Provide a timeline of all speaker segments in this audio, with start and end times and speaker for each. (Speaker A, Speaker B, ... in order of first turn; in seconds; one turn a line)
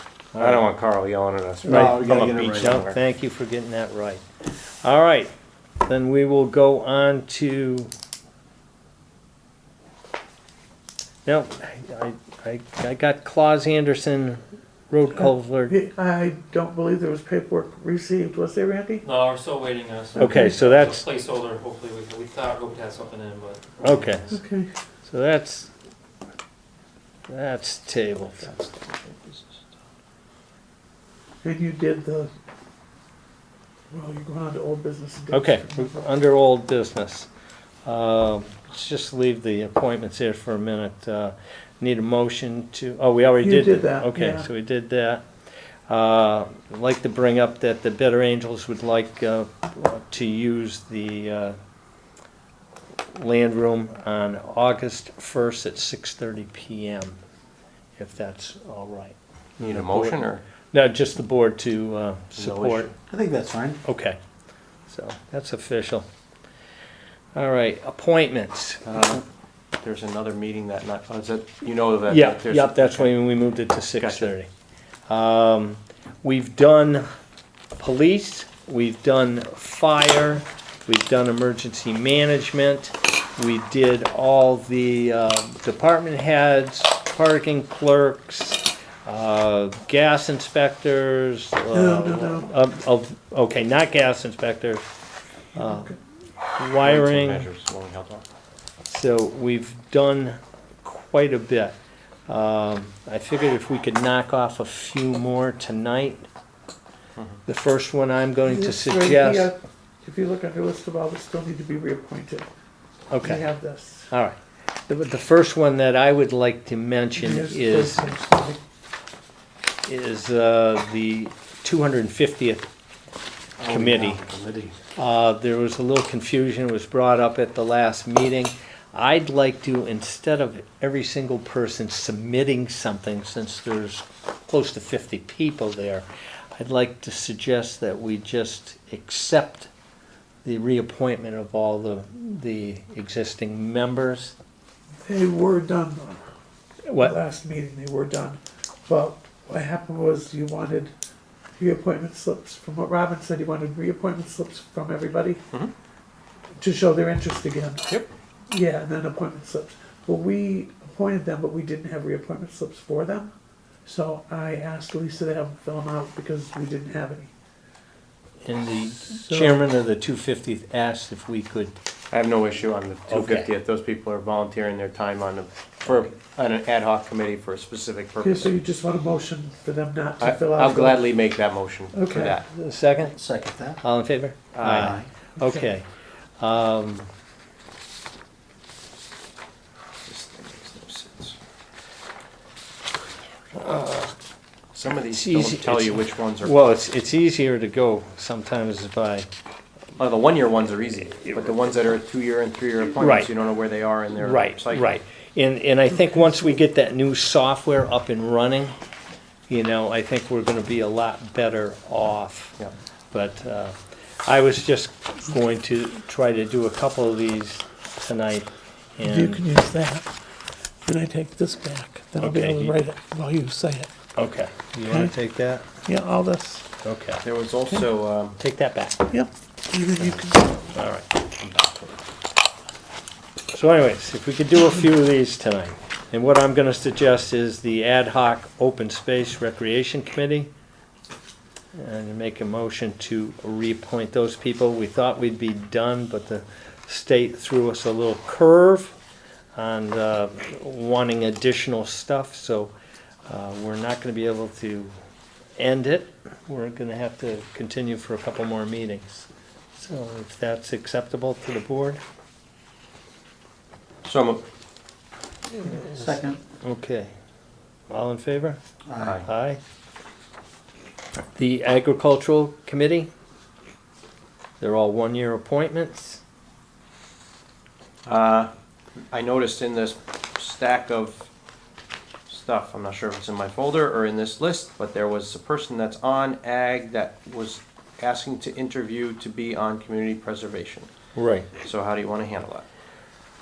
Speaker A: 0.3-0.6
Speaker B: 0.4-3.0
Speaker C: 1.6-2.8
Speaker A: 1.6-4.2
Speaker A: 4.8-7.9
Speaker A: 11.2-15.8
Speaker D: 15.2-19.1
Speaker E: 19.0-24.4
Speaker A: 20.2-21.0
Speaker D: 20.2-20.5
Speaker A: 23.8-24.3
Speaker D: 24.3-24.7
Speaker A: 25.0-25.7
Speaker A: 27.3-28.5
Speaker B: 28.4-29.6
Speaker D: 31.4-32.3
Speaker D: 33.9-36.0
Speaker A: 35.3-37.3
Speaker A: 37.9-45.2
Speaker D: 43.4-44.5
Speaker A: 45.9-51.5
Speaker A: 53.1-57.2
Speaker A: 58.0-62.9
Speaker B: 59.6-60.4
Speaker B: 62.4-62.9
Speaker C: 63.1-63.8
Speaker A: 63.8-64.2
Speaker A: 64.9-66.0
Speaker A: 67.3-69.2
Speaker B: 68.8-69.2
Speaker B: 69.8-73.1
Speaker A: 72.1-74.5
Speaker B: 74.0-74.3
Speaker A: 75.1-77.0
Speaker A: 77.8-94.8
Speaker D: 91.7-92.5
Speaker A: 95.5-95.9
Speaker D: 95.6-95.9
Speaker A: 96.6-97.5
Speaker B: 96.8-98.2
Speaker A: 98.8-101.8
Speaker A: 102.3-106.3
Speaker A: 107.5-109.5
Speaker D: 108.4-112.5
Speaker A: 113.1-113.4
Speaker D: 113.2-114.1
Speaker A: 114.1-114.4
Speaker A: 114.9-118.0
Speaker D: 117.2-118.6
Speaker A: 119.8-122.7
Speaker C: 123.6-124.8
Speaker A: 123.7-124.2
Speaker A: 125.0-139.7
Speaker A: 140.4-144.3
Speaker D: 145.0-146.2
Speaker A: 146.9-147.2
Speaker D: 147.0-150.9
Speaker D: 151.6-155.4
Speaker D: 156.6-157.9
Speaker D: 158.5-163.3
Speaker D: 163.8-167.3
Speaker A: 168.4-171.7
Speaker D: 169.2-169.6
Speaker B: 172.1-178.5
Speaker A: 173.1-173.5
Speaker D: 178.2-181.1
Speaker B: 180.2-182.4
Speaker D: 181.9-182.4
Speaker A: 182.5-183.2
Speaker C: 183.0-183.8
Speaker A: 183.8-185.8
Speaker B: 184.5-184.9
Speaker C: 184.6-185.1
Speaker D: 185.4-185.7
Speaker A: 186.4-187.1
Speaker B: 190.1-191.3
Speaker A: 193.5-194.1
Speaker B: 194.7-196.7
Speaker A: 195.1-199.3
Speaker B: 200.0-205.0
Speaker A: 201.1-201.5
Speaker A: 202.9-203.3
Speaker A: 204.1-208.8
Speaker A: 209.5-212.6
Speaker A: 213.1-219.4
Speaker D: 219.0-220.1
Speaker D: 220.8-223.9
Speaker A: 222.2-222.8
Speaker A: 224.2-225.7
Speaker D: 224.9-225.1
Speaker D: 225.8-226.7
Speaker A: 226.8-227.2
Speaker B: 227.2-228.4
Speaker A: 228.4-229.1
Speaker D: 229.1-230.7
Speaker A: 230.0-231.1
Speaker B: 231.4-232.0
Speaker A: 233.5-240.5
Speaker A: 241.7-248.9
Speaker A: 249.6-252.7
Speaker A: 253.2-254.9
Speaker A: 255.6-262.0
Speaker B: 264.0-264.4
Speaker A: 265.6-267.1
Speaker C: 265.7-266.4
Speaker A: 267.9-268.6
Speaker C: 268.9-269.2
Speaker B: 269.0-269.2
Speaker A: 269.2-269.6
Speaker A: 271.4-273.1
Speaker A: 274.6-276.2
Speaker B: 278.0-278.5
Speaker B: 279.1-281.3
Speaker B: 282.3-290.9
Speaker A: 291.1-291.5
Speaker B: 291.6-292.6